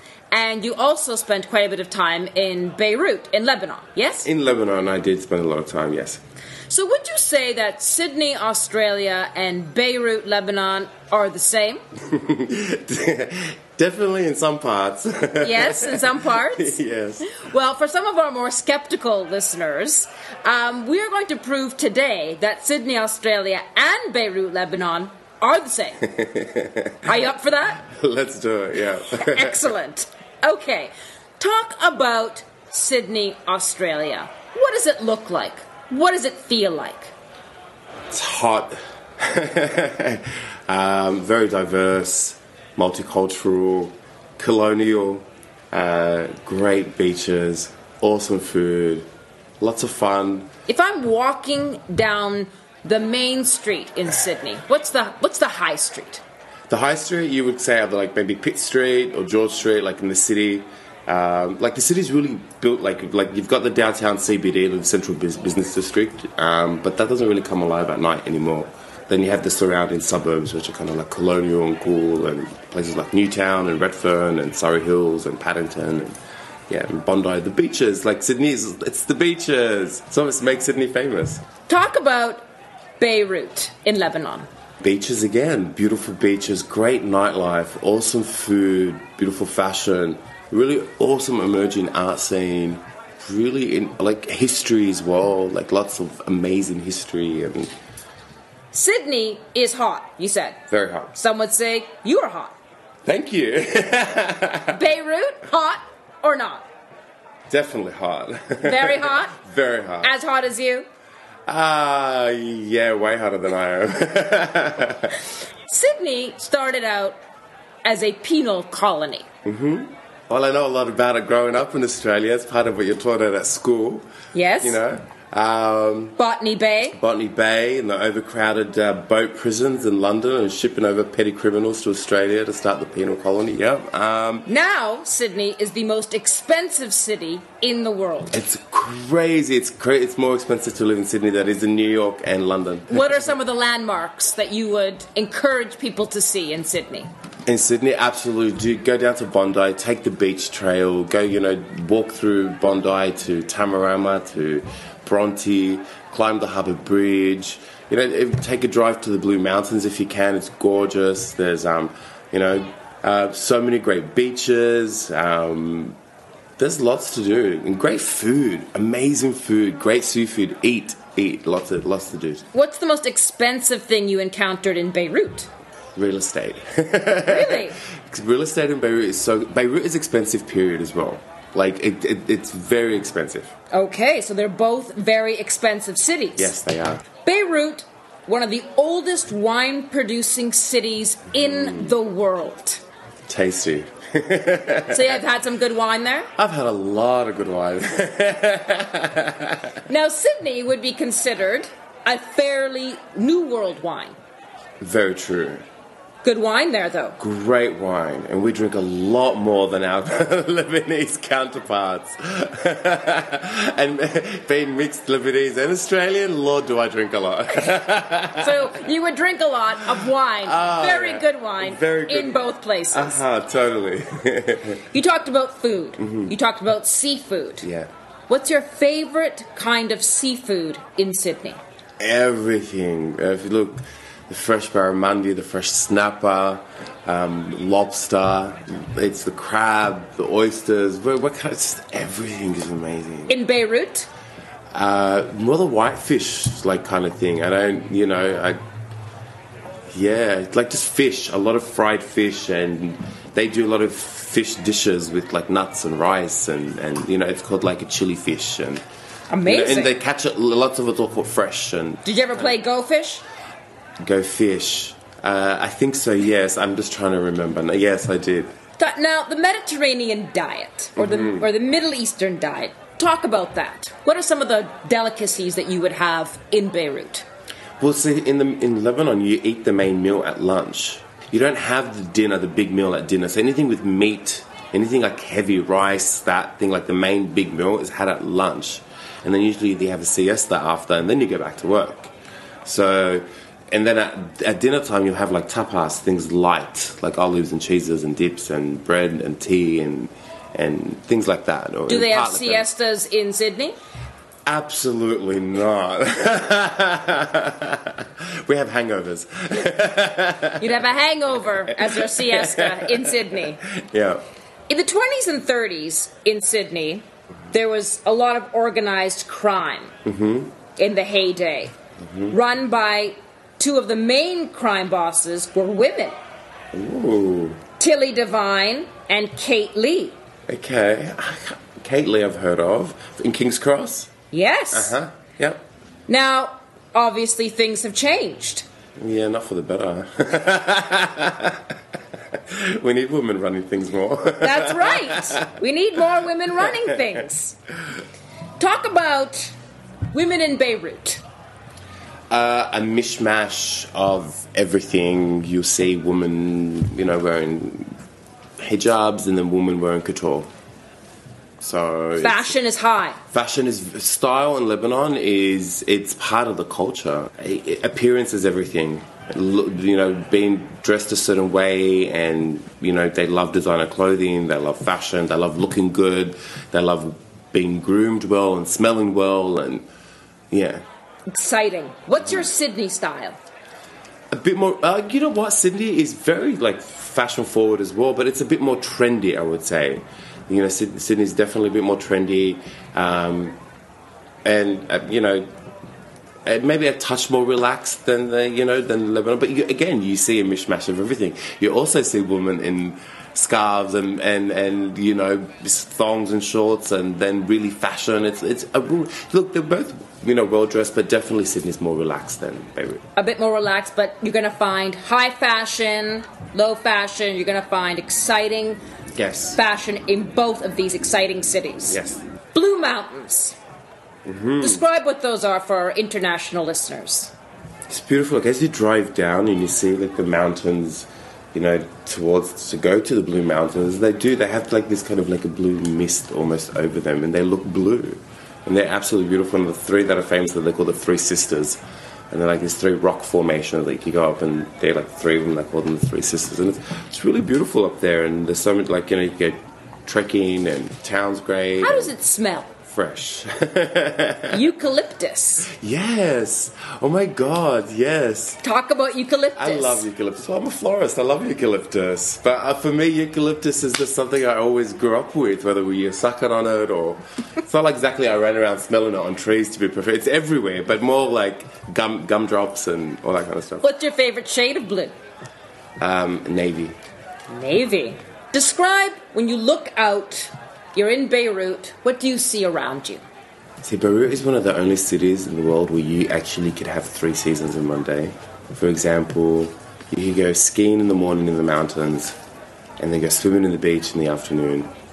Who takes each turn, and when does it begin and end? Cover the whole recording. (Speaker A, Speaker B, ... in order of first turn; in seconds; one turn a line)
Speaker A: 0.3-4.3
Speaker B: 4.2-6.2
Speaker A: 6.7-11.8
Speaker B: 12.1-17.3
Speaker A: 15.4-26.1
Speaker B: 26.2-27.0
Speaker A: 27.0-27.8
Speaker B: 27.8-29.6
Speaker A: 29.2-37.1
Speaker B: 38.1-49.1
Speaker B: 49.6-50.5
Speaker A: 50.7-56.2
Speaker B: 56.7-81.4
Speaker A: 81.7-82.4
Speaker A: 83.0-84.5
Speaker B: 84.8-97.7
Speaker A: 98.7-102.5
Speaker B: 100.7-101.1
Speaker B: 103.0-104.8
Speaker A: 104.7-106.7
Speaker B: 107.5-110.1
Speaker A: 108.6-109.4
Speaker A: 110.0-110.8
Speaker B: 111.5-115.1
Speaker A: 115.7-117.2
Speaker A: 117.8-119.3
Speaker B: 119.4-124.1
Speaker A: 124.3-124.8
Speaker B: 124.6-126.2
Speaker A: 126.2-127.0
Speaker B: 126.9-134.5
Speaker A: 134.4-138.4
Speaker B: 138.3-143.3
Speaker A: 142.9-147.1
Speaker B: 147.4-166.0
Speaker B: 166.6-172.4
Speaker A: 172.5-175.5
Speaker B: 175.9-183.5
Speaker A: 177.2-177.8
Speaker A: 183.7-186.5
Speaker B: 186.4-187.1
Speaker A: 187.2-192.8
Speaker B: 191.4-191.9
Speaker B: 193.3-195.2
Speaker A: 194.9-196.3
Speaker B: 196.3-199.6
Speaker A: 199.9-204.2
Speaker B: 204.8-205.6
Speaker A: 206.2-207.2
Speaker B: 207.2-218.7
Speaker A: 218.3-223.2
Speaker B: 220.4-224.8
Speaker A: 224.9-227.7
Speaker B: 226.0-226.3
Speaker B: 227.6-227.9
Speaker A: 228.3-231.6
Speaker B: 232.0-243.3
Speaker A: 243.3-244.1
Speaker B: 244.7-248.6
Speaker B: 249.9-258.8
Speaker A: 259.3-259.9
Speaker B: 259.4-262.6
Speaker A: 262.0-263.2
Speaker B: 264.0-268.5
Speaker A: 268.8-277.2
Speaker B: 271.0-271.5
Speaker B: 277.8-292.1
Speaker B: 292.6-302.7
Speaker A: 301.9-303.8
Speaker B: 304.4-310.7
Speaker A: 310.6-313.6
Speaker B: 311.7-314.2
Speaker A: 314.7-319.9
Speaker B: 320.0-320.5
Speaker A: 320.8-321.7
Speaker B: 322.0-322.4
Speaker A: 322.3-326.2
Speaker B: 326.7-327.6
Speaker A: 327.8-330.2
Speaker B: 330.5-334.1
Speaker A: 334.3-334.9
Speaker B: 334.7-335.6
Speaker A: 336.1-338.6
Speaker B: 339.0-341.6
Speaker B: 342.3-345.5
Speaker A: 344.4-347.6
Speaker A: 348.6-349.5
Speaker A: 350.1-351.2
Speaker B: 352.3-357.9
Speaker B: 358.6-360.5
Speaker B: 361.6-362.6
Speaker A: 362.2-363.2
Speaker B: 363.3-379.9
Speaker B: 380.5-380.8
Speaker A: 381.3-383.4
Speaker B: 384.3-393.6
Speaker B: 394.4-395.5
Speaker B: 396.4-413.0
Speaker A: 413.1-418.8
Speaker B: 419.1-419.6
Speaker A: 419.5-422.0
Speaker B: 421.9-422.2
Speaker A: 422.5-423.6
Speaker B: 424.2-424.8
Speaker A: 424.6-427.3
Speaker B: 427.9-452.1
Speaker A: 451.8-452.7
Speaker B: 452.9-454.7
Speaker A: 454.5-455.7
Speaker B: 455.6-458.6
Speaker A: 458.6-460.1
Speaker B: 459.6-473.9
Speaker A: 473.8-475.1
Speaker B: 476.0-477.0
Speaker A: 477.5-483.2
Speaker B: 483.8-492.4
Speaker B: 493.0-494.9